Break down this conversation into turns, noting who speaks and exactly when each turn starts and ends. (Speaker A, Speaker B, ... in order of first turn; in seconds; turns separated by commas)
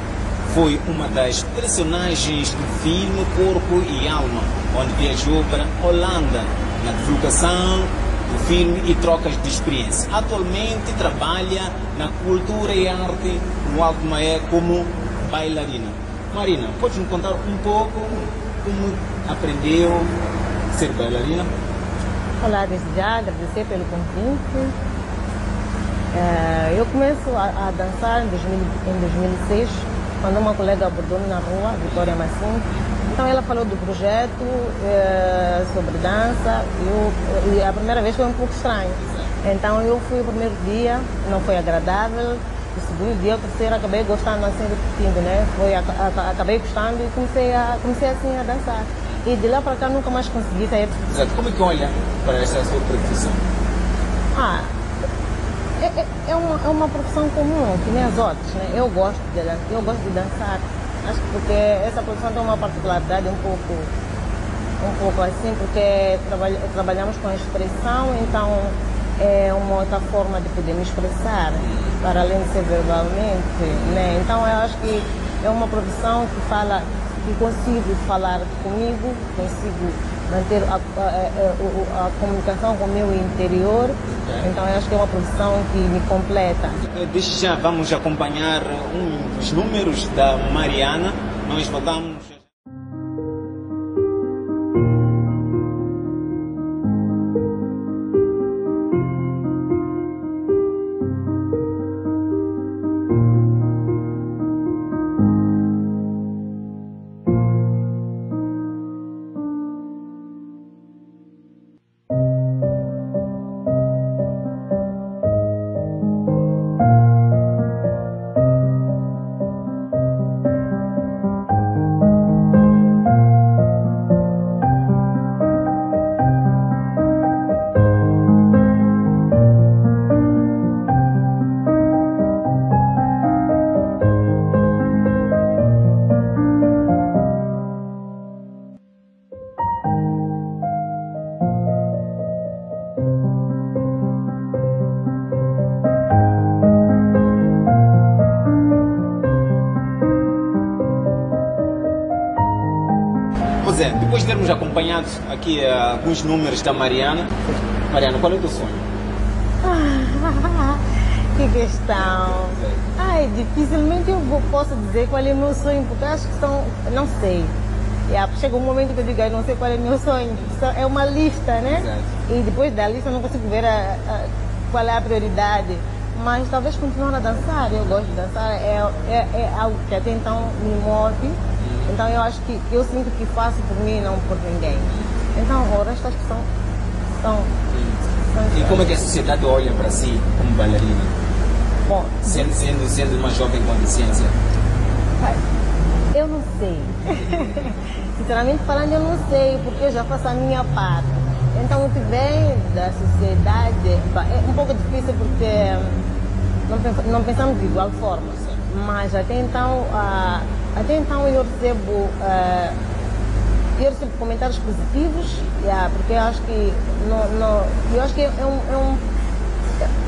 Speaker A: 0.4-20.1, Speaker A: 20.7-21.5, Speaker B: 22.4-24.8, Speaker B: 26.1-51.1, Speaker A: 31.9-32.1, Speaker A: 39.0-39.3, Speaker A: 51.1-53.4, Speaker B: 54.3-54.7, Speaker B: 55.8-63.9, Speaker B: 64.8-86.8, Speaker A: 71.7-72.0, Speaker A: 73.7-74.0, Speaker A: 86.8-92.4, Speaker A: 153.6-158.9, Speaker B: 159.6-167.5, Speaker A: 162.4-162.9, Speaker B: 168.1-186.5, Speaker A: 171.7-172.2, Speaker A: 181.6-181.9, Speaker A: 184.9-185.2, Speaker B: 187.2-187.5, Speaker A: 187.7-191.2, Speaker B: 188.3-188.6, Speaker B: 191.9-192.5, Speaker A: 192.2-194.3, Speaker B: 196.1-206.1, Speaker B: 206.7-212.8, Speaker B: 213.8-219.0